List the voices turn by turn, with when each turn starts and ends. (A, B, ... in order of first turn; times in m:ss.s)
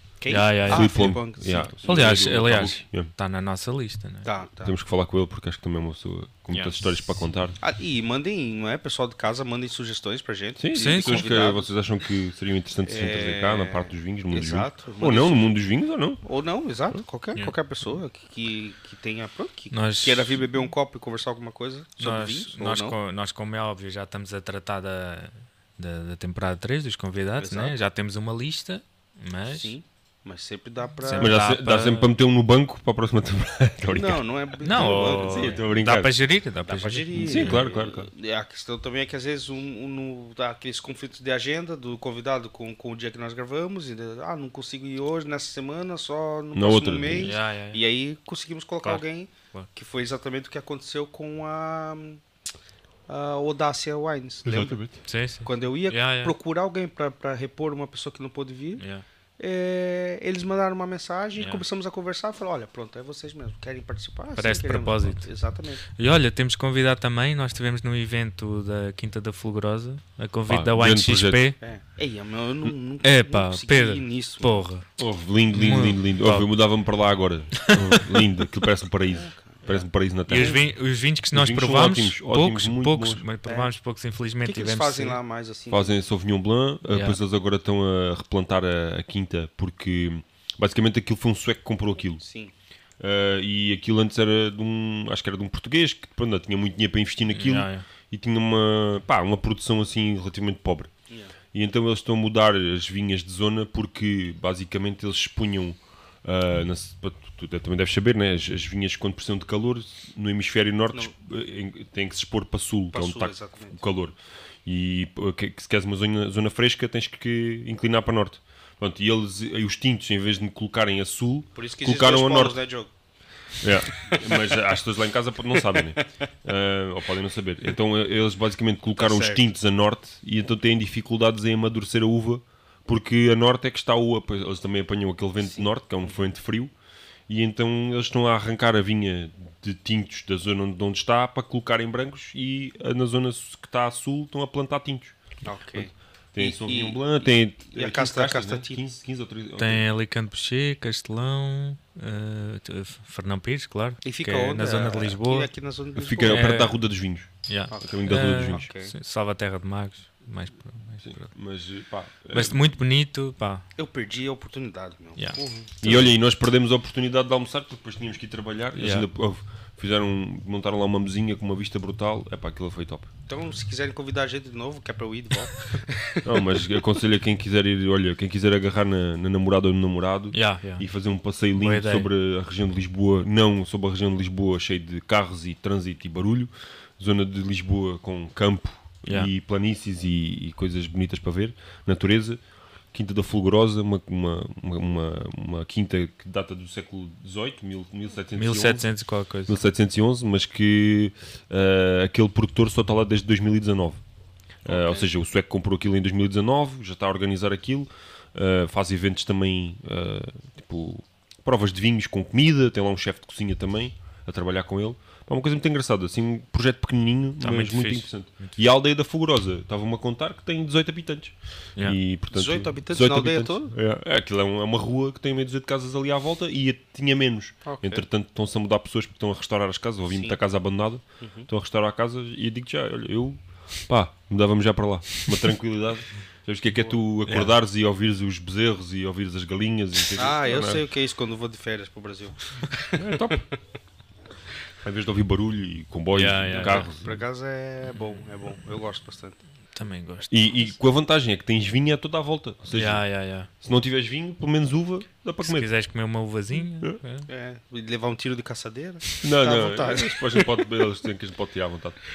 0:00.2-0:01.7 A
0:00.3-0:00.9 B
0:00.7-0:03.1 C
0:01.8-0:04.3 B
0:04.2-0:04.8 A
0:04.6-0:07.6 C
0:06.5-0:06.8 B
0:07.6-0:11.7 A
0:10.6-0:16.2 C
0:10.7-0:11.3 B
0:12.8-0:15.5 A
0:16.2-0:23.0 A
0:19.7-0:20.4 B
0:22.0-0:29.7 B
0:27.4-0:27.8 A
0:29.5-0:31.4 A
0:31.0-0:32.1 B
0:31.1-0:36.1 C
0:33.9-0:35.7 A
0:34.6-0:37.6 B
0:36.6-0:52.2 A
0:37.1-0:38.1 C
0:46.5-0:47.4 C
0:47.2-0:47.8 B
0:48.8-0:49.7 B
0:53.1-0:54.8 A
0:54.4-0:55.0 C
0:55.0-0:56.3 B
0:55.4-0:58.8 A
0:58.8-0:59.0 B
0:59.4-1:05.8 A
1:01.4-1:01.6 B
1:04.4-1:05.3 B
1:05.9-1:11.6 B
1:10.5-1:11.5 C
1:11.6-1:14.7 A
1:13.0-1:14.8 B
1:15.0-1:20.6 C
1:15.5-1:16.5 B
1:17.6-1:18.0 B
1:19.1-1:20.6 A
1:20.3-1:25.2 B
1:21.3-1:23.2 C
1:23.4-1:23.7 A
1:24.4-1:25.9 A
1:25.7-1:32.2 C
1:26.9-1:27.2 B
1:32.2-1:32.5 A
1:33.0-1:40.9 C
1:37.3-1:37.9 B
1:41.1-1:41.3 A
1:41.5-2:02.6 C
1:52.9-1:53.8 A
2:01.6-2:02.9 A
2:03.6-2:16.7 C
2:03.9-2:04.4 A
2:09.0-2:09.5 A
2:15.4-2:16.2 A
2:17.3-2:25.2 C
2:25.4-2:28.8 A
2:25.8-2:29.8 C
2:29.6-2:35.5 B
2:34.0-2:36.7 A
2:36.0-2:38.7 C
2:36.2-2:36.8 B
2:37.4-2:41.3 B
2:37.7-2:38.9 A
2:41.0-2:42.7 C
2:42.3-2:43.6 B
2:43.8-2:45.9 A
2:45.2-2:46.1 B
2:45.8-2:53.1 C
2:48.7-2:49.1 B
2:53.3-2:56.4 A
2:56.2-3:18.9 C
3:00.3-3:00.8 B
3:01.5-3:02.1 B
3:18.4-3:19.6 B
3:19.4-3:24.0 C
3:24.6-4:00.8 C
3:24.6-3:25.0 A
3:37.4-3:38.6 B
3:42.3-3:43.7 A
3:47.6-3:48.0 A
3:50.1-3:50.4 A
3:51.2-3:51.5 A
3:57.3-3:57.5 B
4:00.1-4:03.4 A
4:03.0-4:03.5 C
4:04.8-4:07.2 C
4:06.1-4:06.9 B
4:06.9-4:09.4 A
4:09.7-4:10.7 B
4:10.3-4:15.7 C
4:12.7-4:13.5 B
4:15.4-4:17.3 B
4:17.3-4:20.6 A
4:19.2-4:22.0 C